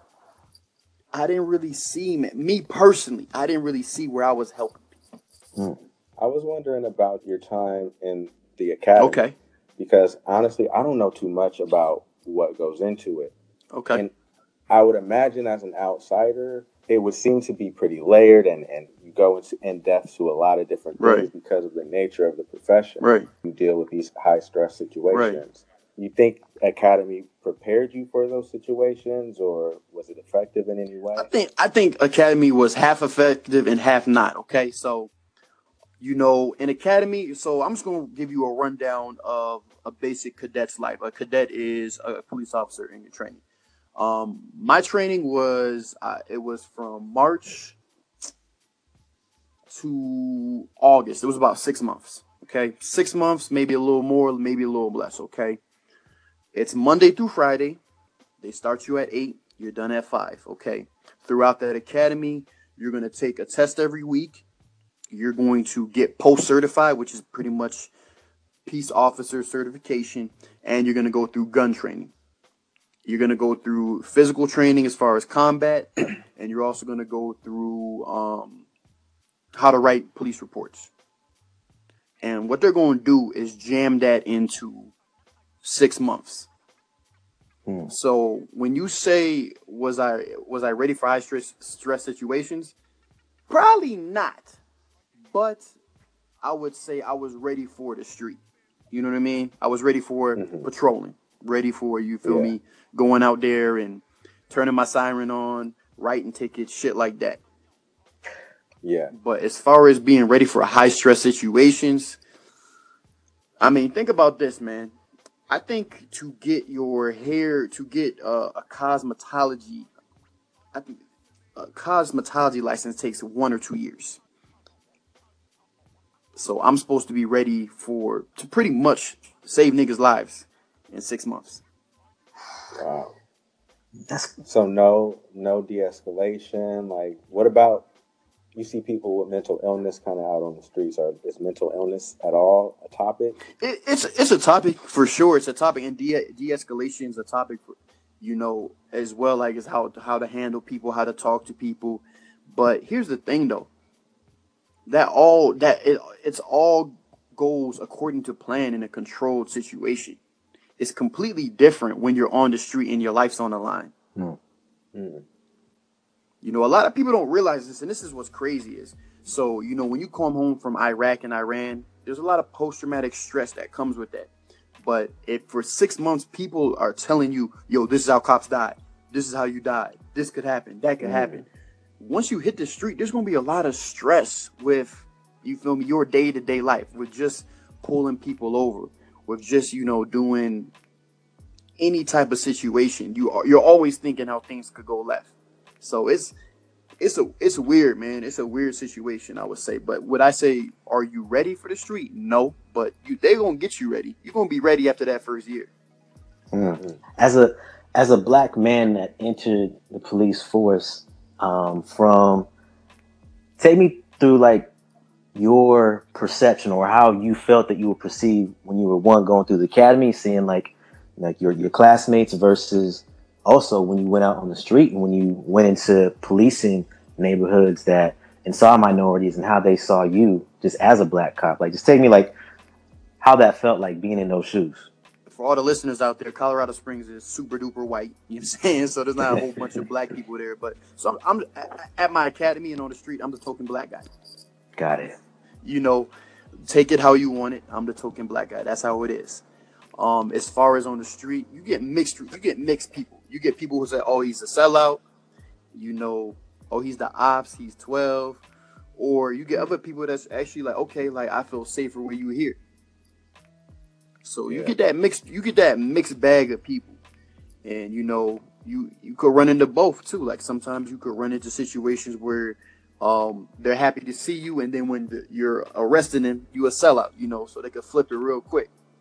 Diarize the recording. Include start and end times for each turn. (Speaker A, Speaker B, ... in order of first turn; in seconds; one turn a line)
Speaker A: 1.1-4.8
Speaker B: 6.2-9.2
Speaker A: 9.0-9.3
Speaker B: 9.8-13.3
Speaker A: 13.7-14.0
Speaker B: 14.7-31.3
Speaker A: 21.0-21.3
Speaker A: 23.0-23.3
Speaker A: 25.1-25.4
Speaker A: 31.1-35.1
Speaker A: 36.0-43.4
Speaker A: 44.0-47.8
Speaker A: 49.7-55.6
Speaker A: 56.5-57.8
Speaker A: 58.4-64.4
Speaker A: 65.1-67.9
Speaker A: 68.7-72.1
Speaker A: 73.0-78.6
Speaker A: 79.5-80.9
Speaker A: 82.2-84.9
Speaker A: 85.6-86.5
Speaker C: 87.7-87.9
Speaker A: 87.9-92.7
Speaker A: 93.5-94.6
Speaker A: 95.3-95.6
Speaker A: 96.4-98.4
Speaker A: 98.9-107.4
Speaker B: 100.4-100.7
Speaker B: 102.2-102.5
Speaker B: 108.8-109.1
Speaker A: 109.1-112.2
Speaker A: 113.6-114.9
Speaker A: 115.5-119.9
Speaker A: 121.5-124.2
Speaker A: 126.4-131.6
Speaker B: 132.8-133.1
Speaker C: 134.1-134.3
Speaker B: 134.4-137.8
Speaker B: 138.5-143.4
Speaker A: 143.6-153.7
Speaker A: 154.9-160.2
Speaker A: 160.8-163.9
Speaker B: 164.9-165.2
Speaker A: 166.4-174.3
Speaker A: 174.8-181.5
Speaker B: 181.0-181.4
Speaker A: 182.0-190.7
Speaker A: 191.8-196.3
Speaker A: 197.0-205.7
Speaker C: 206.5-212.5
Speaker C: 213.6-214.7
Speaker C: 215.3-232.3
Speaker C: 233.2-234.9
Speaker A: 235.3-244.1
Speaker C: 244.8-245.2
Speaker A: 245.6-246.1
Speaker A: 246.7-249.4
Speaker A: 250.0-255.0
Speaker A: 255.7-258.4
Speaker A: 259.0-262.6
Speaker A: 264.2-267.0
Speaker B: 264.5-264.8
Speaker A: 267.6-278.7